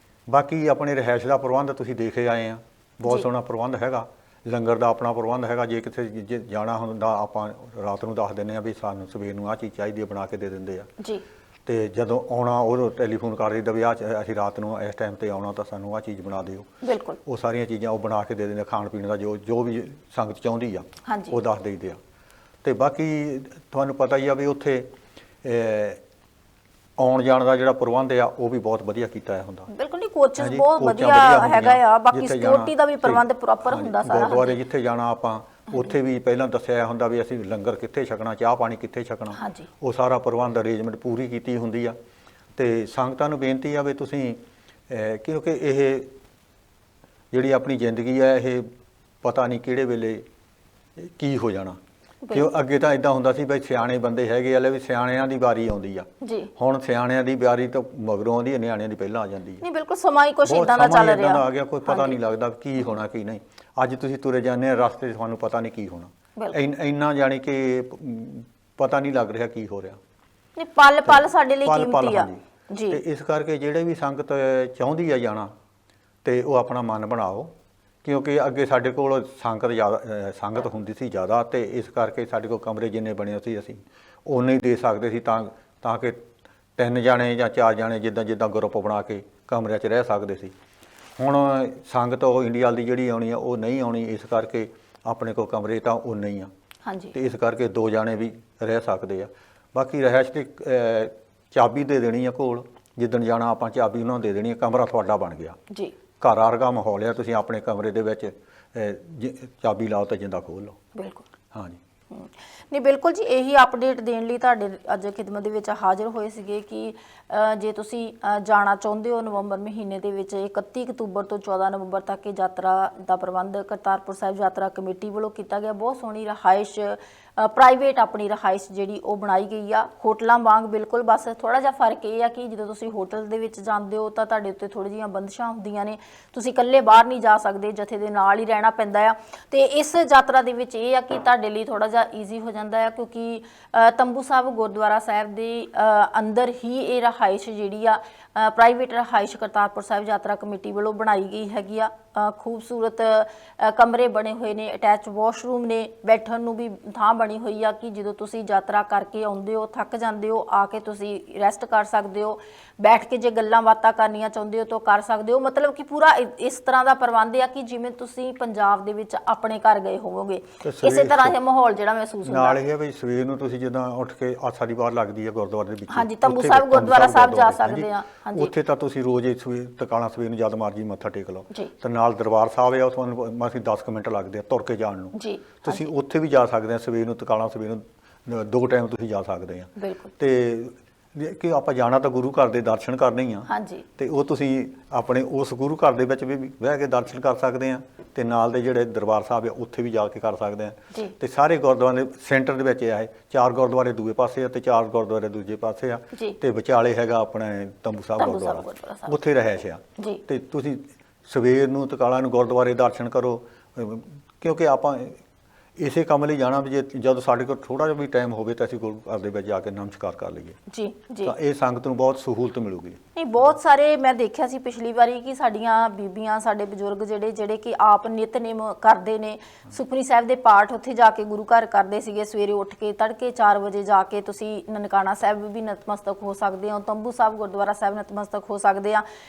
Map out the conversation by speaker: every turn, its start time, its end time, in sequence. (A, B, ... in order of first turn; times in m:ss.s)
0:00.3-0:10.9 A
0:11.6-0:16.7 A
0:16.8-0:17.2 B
0:17.2-0:22.0 A
0:21.0-0:21.4 B
0:22.6-0:24.9 A
0:25.4-0:26.0 A
0:27.0-0:29.7 A
0:29.7-0:34.6 B
0:30.4-0:42.0 A
0:39.3-0:39.7 B
0:42.6-0:46.1 A
0:47.3-0:48.7 A
0:49.2-0:50.2 A
0:51.0-0:51.8 A
0:52.2-0:52.5 B
0:52.3-0:59.6 A
0:56.2-0:56.5 B
0:59.6-1:02.2 B
1:00.4-1:10.0 A
1:10.6-1:13.0 B
1:11.0-1:15.5 A
1:16.2-1:17.5 A
1:18.0-1:26.2 A
1:26.8-1:30.5 A
1:31.2-1:36.5 A
1:36.8-1:37.1 B
1:37.1-1:45.6 A
1:46.2-1:50.8 A
1:50.9-1:51.2 B
1:51.5-1:51.8 A
1:52.1-2:52.6 B
2:50.6-2:51.4 A
2:52.2-3:35.2 A
2:55.9-2:58.5 B
3:05.1-3:05.9 B
3:09.8-3:10.1 B
3:13.5-3:13.8 B
3:28.2-3:29.2 B
3:35.8-3:40.6 A
3:40.7-3:41.3 B
3:41.2-3:43.0 A
3:43.1-3:59.0 B